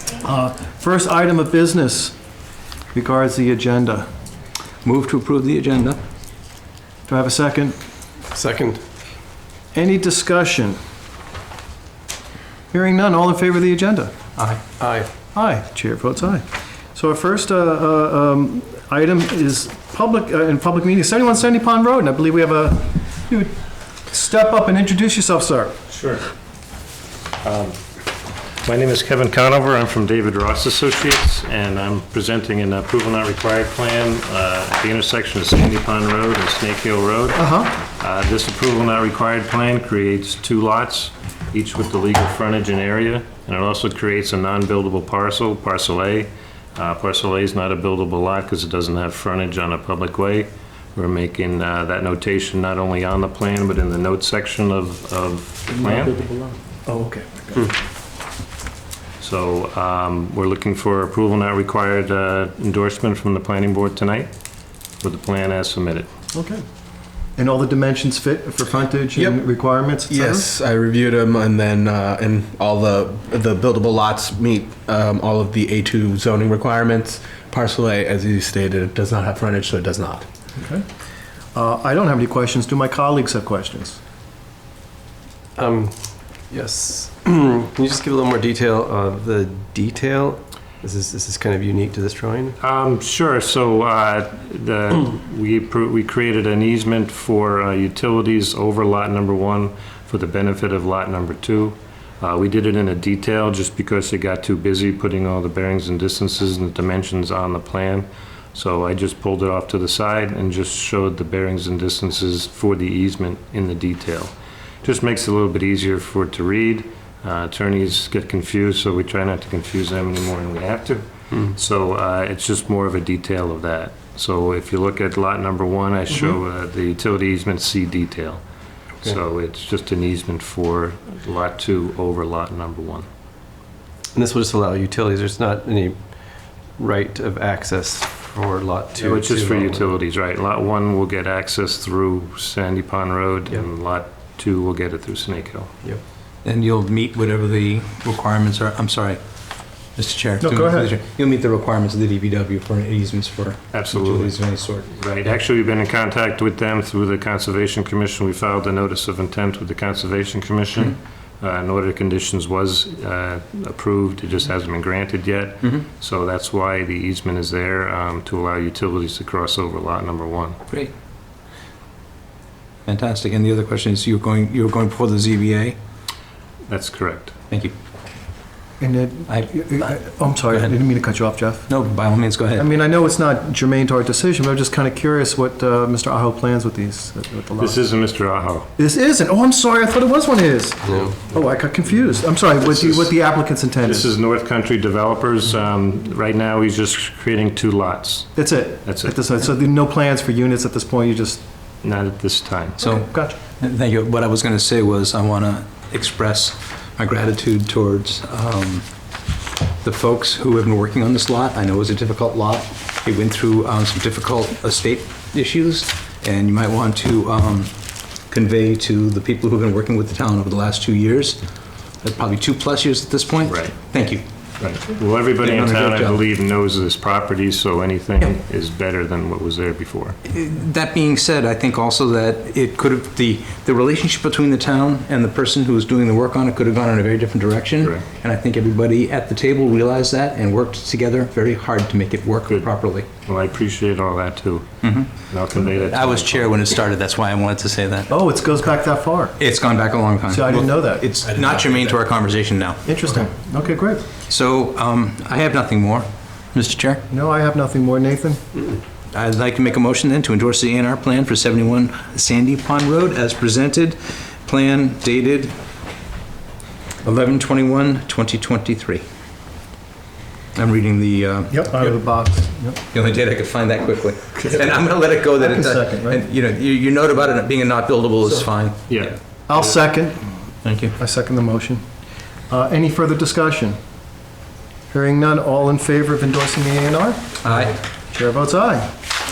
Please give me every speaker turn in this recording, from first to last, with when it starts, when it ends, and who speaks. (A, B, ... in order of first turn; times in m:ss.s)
0:00.2-0:02.2 A
0:02.9-0:04.1 A
0:04.8-0:06.0 B
0:07.1-0:07.8 A
0:08.3-0:08.8 C
0:09.7-0:10.8 A
0:12.7-0:14.1 A
0:14.8-0:15.1 C
0:15.3-0:23.5 A
0:24.1-0:25.7 A
0:25.9-0:26.3 D
0:27.4-0:27.8 D
0:28.6-0:56.4 D
0:37.3-0:37.8 A
0:56.8-0:57.7 A
0:59.2-1:04.3 D
1:05.0-1:06.1 D
1:06.3-1:06.6 A
1:07.4-1:10.5 A
1:10.1-1:20.3 E
1:20.6-1:20.8 A
1:21.5-1:24.0 A
1:25.6-1:32.6 C
1:32.6-1:54.3 D
1:54.8-2:08.4 D
2:09.0-2:13.1 D
2:14.1-2:16.1 C
2:16.8-2:19.9 C
2:19.0-2:25.7 D
2:26.4-2:29.2 B
2:30.0-2:35.0 B
2:30.4-2:30.9 A
2:33.7-2:34.4 D
2:34.9-2:50.6 D
2:52.8-2:55.8 B
2:56.7-2:57.4 D
2:58.8-3:01.7 A
2:59.3-2:59.9 B
3:01.7-3:02.7 B
3:02.6-3:07.8 A
3:07.6-3:08.7 D
3:08.8-3:14.1 A
3:10.9-3:11.2 C
3:13.8-3:19.1 D
3:18.3-3:21.4 A
3:21.8-3:22.8 D
3:22.8-3:23.4 A
3:22.8-3:23.1 B
3:23.6-3:28.8 B
3:29.8-3:37.7 B
3:38.3-3:41.4 B
3:42.0-3:44.2 B
3:43.5-3:43.7 D
3:44.6-3:50.2 D
3:45.4-3:46.2 B
3:50.3-4:03.1 B
4:03.2-4:06.6 D
4:04.8-4:05.1 B
4:05.8-4:08.2 B
4:08.1-4:09.4 A
4:09.4-4:12.8 B
4:10.3-4:11.1 A
4:11.3-4:11.9 E
4:12.8-4:14.0 A
4:14.3-4:17.0 B
4:17.1-4:18.5 A
4:19.1-4:25.5 B
4:27.0-4:29.0 B
4:30.5-4:31.9 B
4:31.5-4:32.8 A
4:32.9-4:38.9 B
4:34.4-4:34.7 A
4:35.3-4:36.2 A
4:38.9-4:39.2 D
4:39.5-4:40.2 A
4:40.6-4:41.0 B
4:41.0-4:41.8 A
4:42.5-4:43.8 A
4:44.9-4:47.4 A
4:47.4-4:47.8 B
4:48.1-4:48.9 A